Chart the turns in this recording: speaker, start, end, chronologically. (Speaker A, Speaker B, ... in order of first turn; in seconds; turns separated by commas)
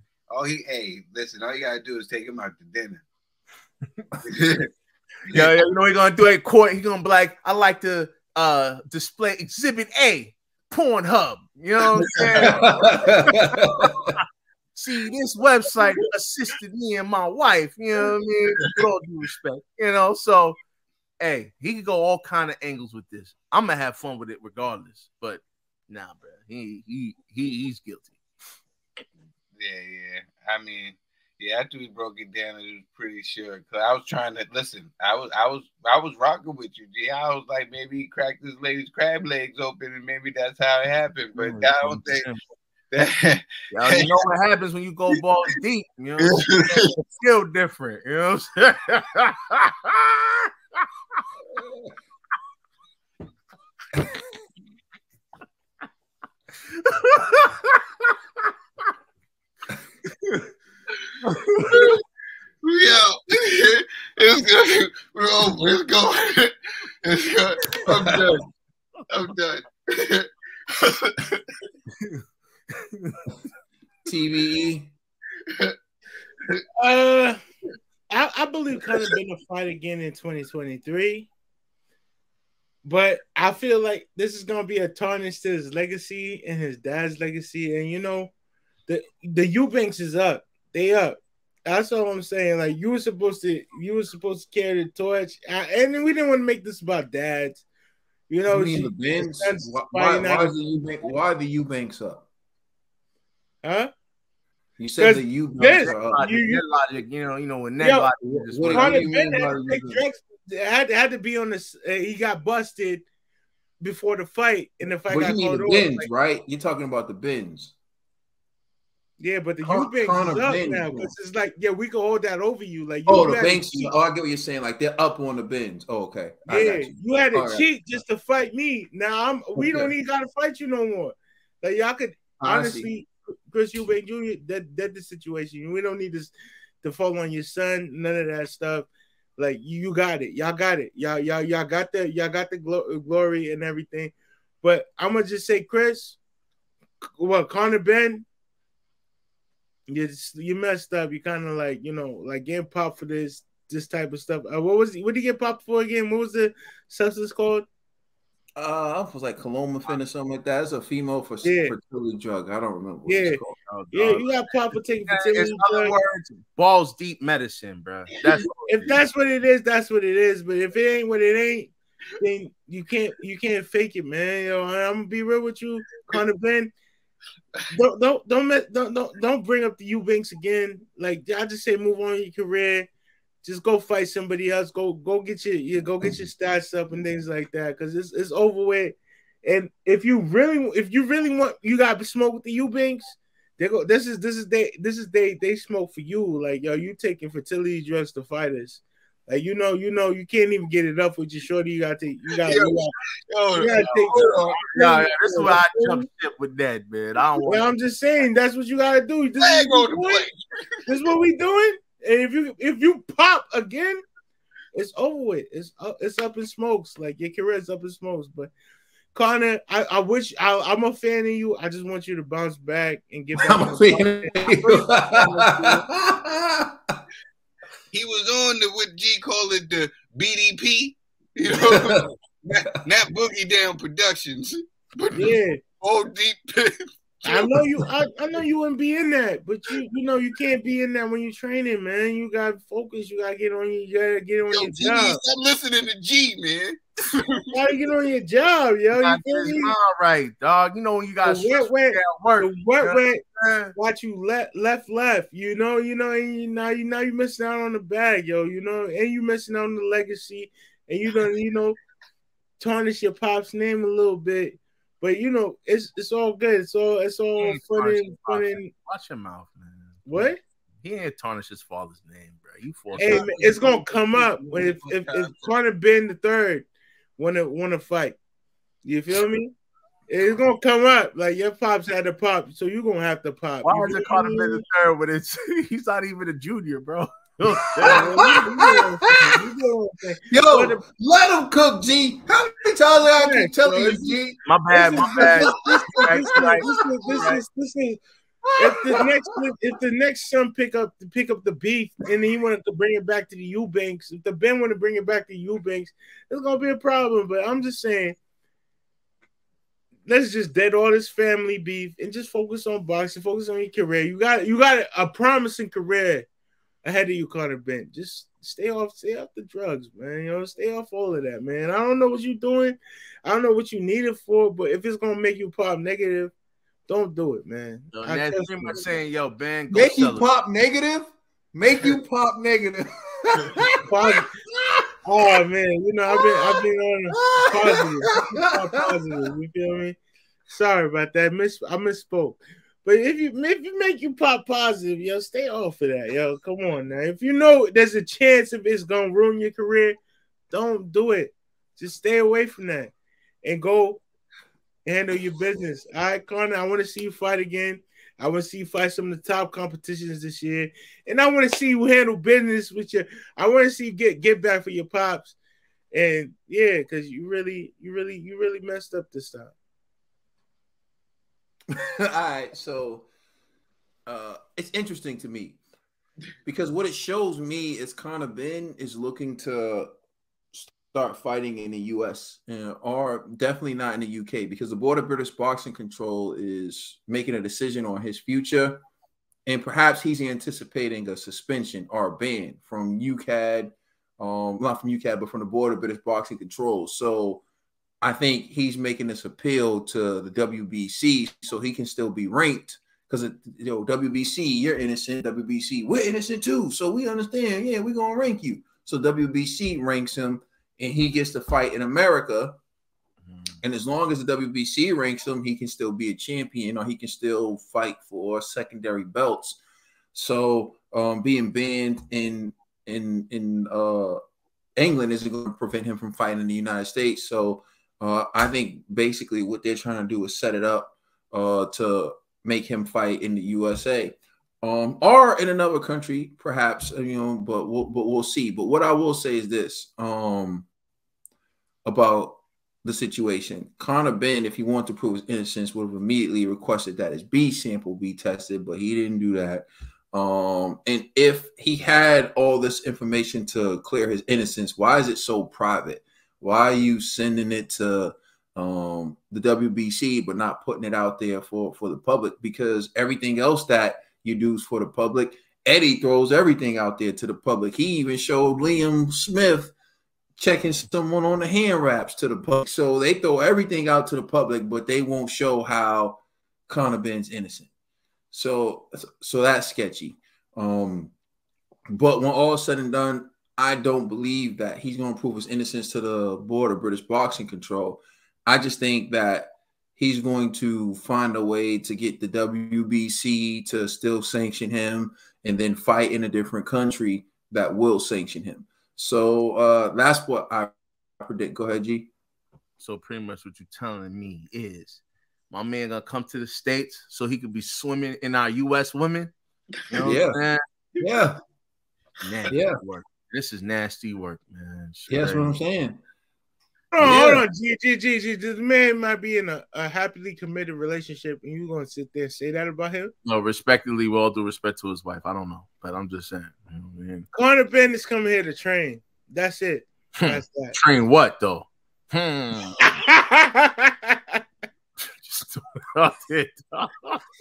Speaker A: 0.3-3.0, Speaker A: 4.2-4.7, Speaker B: 5.3-13.7, Speaker A: 11.9-12.6, Speaker C: 12.4-14.1, Speaker B: 14.8-20.6, Speaker B: 21.2-28.2, Speaker A: 29.6-42.3, Speaker B: 41.4-42.4, Speaker A: 42.9-44.2, Speaker B: 43.7-50.5, Speaker A: 46.2-46.9, Speaker B: 57.0-57.5, Speaker B: 61.2-61.9, Speaker A: 61.7-62.0, Speaker A: 62.6-68.4, Speaker C: 67.9-68.2, Speaker A: 69.1-71.4, Speaker B: 72.8-73.2, Speaker C: 74.0-74.9, Speaker D: 76.8-77.4, Speaker D: 78.1-81.3, Speaker D: 82.8-88.3, Speaker D: 88.9-97.6, Speaker D: 98.3-100.5, Speaker C: 98.5-102.3, Speaker D: 103.6-103.9, Speaker C: 104.8-106.3, Speaker D: 105.0-106.6, Speaker B: 105.8-109.0, Speaker D: 107.8-108.1, Speaker C: 108.3-110.0, Speaker D: 108.7-113.0, Speaker D: 113.8-116.1, Speaker C: 115.1-117.8, Speaker D: 119.2-123.9, Speaker C: 119.6-121.1, Speaker C: 123.1-128.0, Speaker D: 126.5-146.2, Speaker C: 129.6-129.9, Speaker C: 132.4-132.9, Speaker D: 147.2-148.2, Speaker D: 149.9-157.7, Speaker C: 158.6-163.6, Speaker D: 161.4-161.8, Speaker D: 163.1-163.4, Speaker B: 163.7-164.3, Speaker D: 163.9-166.0, Speaker B: 165.1-169.0, Speaker D: 168.7-176.7, Speaker D: 177.7-182.9, Speaker D: 183.4-202.9, Speaker A: 202.4-204.6, Speaker D: 203.5-206.1, Speaker B: 204.1-207.7, Speaker D: 207.4-210.2, Speaker A: 209.4-210.3, Speaker D: 210.9-214.0, Speaker D: 214.7-218.5, Speaker D: 219.1-225.9, Speaker C: 223.4-226.9, Speaker A: 227.9-236.7, Speaker D: 235.1-235.6, Speaker A: 237.2-237.8, Speaker D: 237.2-245.2, Speaker A: 244.5-247.5, Speaker D: 247.5-249.7, Speaker B: 249.0-253.7, Speaker D: 251.2-253.2, Speaker D: 253.8-261.8, Speaker D: 262.6-268.7, Speaker B: 267.4-273.3, Speaker D: 270.1-270.4, Speaker A: 273.0-275.5, Speaker D: 273.0-276.6, Speaker D: 277.2-278.2, Speaker D: 278.8-279.5, Speaker D: 280.1-284.6, Speaker B: 283.6-288.3, Speaker C: 287.8-289.1, Speaker D: 287.8-290.8, Speaker C: 290.3-294.4, Speaker D: 293.1-294.2, Speaker B: 294.4-297.4, Speaker D: 294.7-298.0, Speaker C: 294.9-296.8, Speaker D: 298.6-308.2, Speaker C: 298.6-299.0, Speaker D: 310.1-316.3, Speaker D: 316.8-326.3, Speaker D: 326.9-328.8, Speaker B: 327.9-330.3, Speaker C: 329.7-333.8, Speaker D: 333.9-334.3, Speaker D: 335.0-350.0, Speaker C: 337.1-338.5, Speaker D: 350.5-352.9, Speaker D: 353.4-354.0, Speaker D: 354.9-365.4, Speaker D: 365.9-369.5, Speaker C: 371.7-373.1, Speaker C: 374.1-375.6, Speaker C: 376.4-379.9, Speaker C: 380.5-388.8, Speaker C: 389.5-397.4, Speaker C: 398.0-412.6, Speaker C: 413.6-419.6, Speaker C: 420.1-424.2, Speaker C: 424.8-440.6, Speaker C: 441.9-469.7, Speaker C: 470.4-477.7, Speaker C: 478.3-481.1, Speaker C: 481.9-502.1, Speaker B: 502.8-509.3, Speaker B: 509.9-510.6, Speaker C: 510.0-510.4, Speaker C: 511.0-511.4, Speaker B: 512.2-515.6, Speaker C: 512.5-512.8, Speaker C: 515.1-516.0, Speaker D: 516.9-523.1, Speaker C: 517.0-517.5, Speaker B: 523.2-527.3, Speaker D: 527.3-530.8, Speaker B: 530.2-532.8, Speaker D: 532.8-534.1, Speaker B: 535.2-537.2